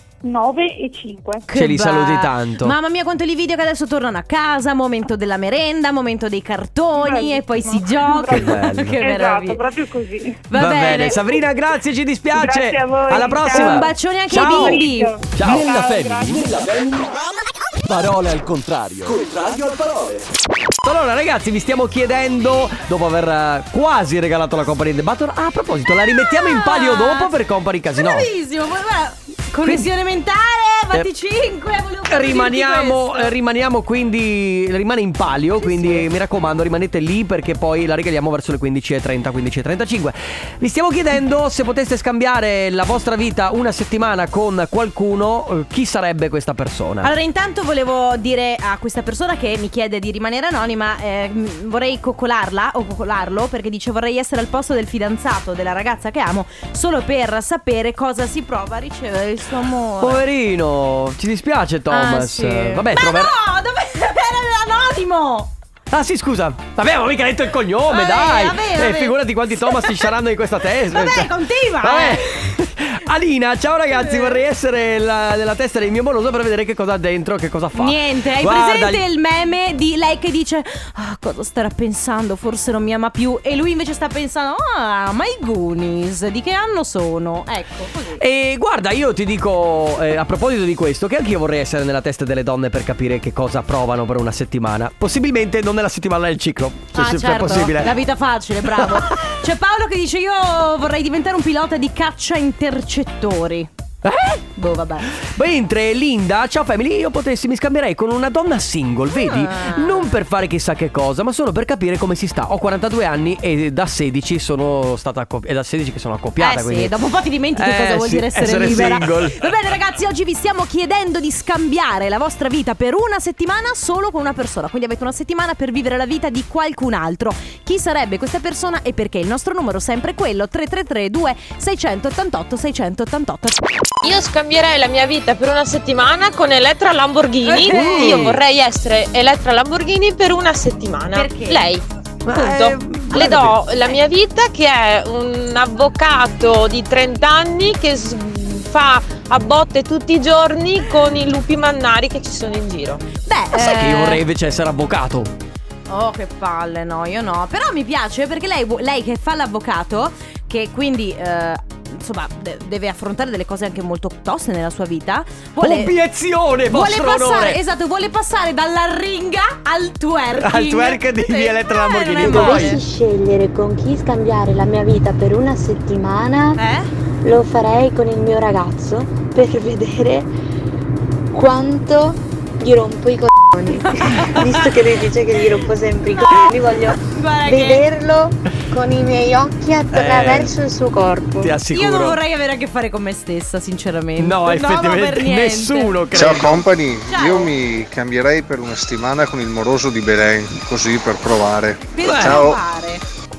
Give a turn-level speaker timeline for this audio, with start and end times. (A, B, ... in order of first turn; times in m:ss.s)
0:00.2-0:01.5 A
0:01.5-0:09.6 B
0:01.5-0:02.8 C
0:07.0-0:10.5 A
0:08.3-0:09.0 C
0:10.5-0:11.3 B
0:10.5-0:14.8 C
0:12.3-0:16.5 A
0:13.5-0:15.2 B
0:15.4-0:15.7 C
0:15.4-0:17.2 D
0:17.9-0:20.3 D
0:20.8-0:28.3 C
0:26.1-0:27.3 B
0:27.9-0:33.3 B
0:29.6-0:29.9 C
0:32.1-0:47.1 C
0:35.6-0:36.1 B
0:47.0-1:00.2 B
1:00.0-1:03.3 C
1:01.9-1:05.5 B
1:05.9-1:19.0 C
1:07.9-1:10.1 B
1:10.9-1:12.5 B
1:14.0-1:14.4 B
1:17.7-1:28.2 B
1:28.2-1:37.9 C
1:37.0-1:43.7 B
1:44.0-1:44.4 C
1:44.6-1:45.1 B
1:45.2-1:56.9 C
1:49.1-1:50.2 B
1:56.4-2:13.6 B
1:57.6-1:59.5 C
2:14.0-2:33.1 E
2:17.5-2:18.3 B
2:17.6-2:18.4 C
2:21.1-2:21.7 B
2:22.2-2:23.6 C
2:33.3-2:34.2 B
2:33.5-2:35.3 C
2:35.9-2:45.9 B
2:45.6-2:47.6 C
2:46.7-2:52.8 B
2:50.4-2:52.8 C
2:52.3-2:56.6 F
2:56.6-2:56.9 B
2:57.2-3:00.3 F
3:01.3-3:11.6 F
3:03.7-3:04.8 B
3:06.1-3:07.8 B
3:09.9-3:10.5 C
3:11.4-3:12.2 C
3:11.7-3:16.4 B
3:14.2-3:16.7 C
3:16.1-3:22.6 G
3:17.1-3:17.5 B
3:22.0-3:23.0 B
3:22.0-3:22.5 C